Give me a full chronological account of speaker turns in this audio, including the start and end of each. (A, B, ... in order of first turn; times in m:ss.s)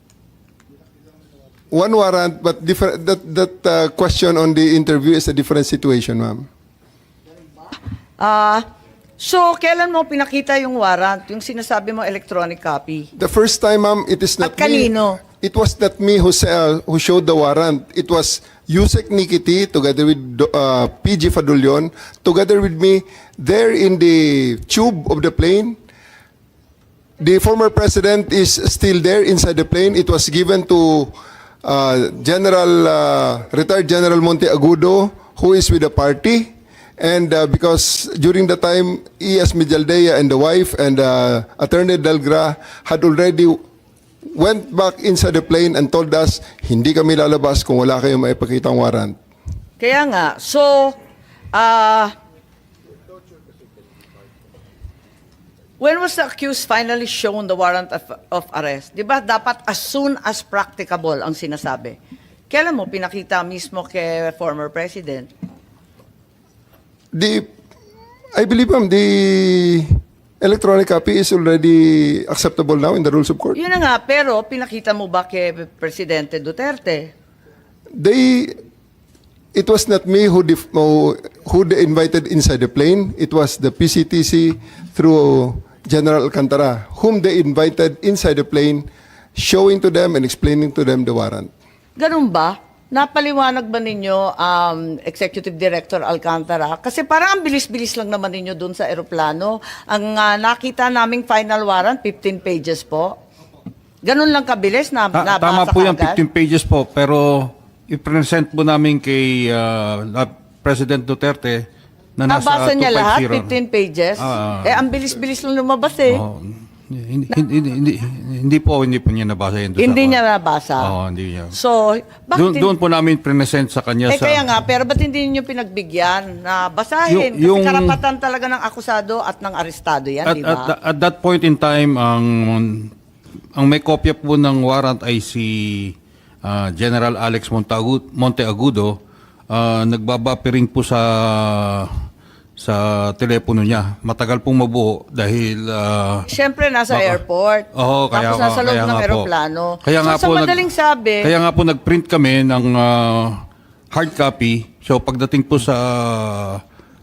0:01.7-0:06.5 A
0:08.2-0:08.6 B
0:09.2-0:13.1 B
0:13.2-0:25.8 A
0:14.4-0:15.2 B
0:27.2-0:43.6 A
0:44.3-0:49.2 A
0:49.8-0:51.0 B
0:51.5-0:52.1 B
0:55.8-1:02.0 B
1:02.5-1:05.3 B
1:07.1-1:07.5 A
1:08.3-1:13.6 A
1:13.6-1:17.1 B
1:18.0-1:18.6 A
1:19.5-1:31.5 A
1:32.0-1:43.2 B
1:44.0-1:46.2 B
1:45.1-1:51.7 C
1:52.2-1:53.5 C
1:52.3-1:56.2 B
1:54.2-1:54.8 C
1:56.1-2:00.2 C
1:59.8-2:00.9 B
2:00.8-2:01.6 C
2:01.5-2:02.7 B
2:02.4-2:04.5 C
2:04.1-2:10.7 B
2:07.1-2:08.0 C
2:10.3-2:12.9 C
2:13.6-2:19.0 C
2:19.5-2:22.0 C
2:22.6-2:26.3 C
2:26.3-2:31.3 B
2:26.9-2:27.2 C
2:27.7-2:29.3 C
2:29.8-2:30.6 C
2:31.2-2:36.6 C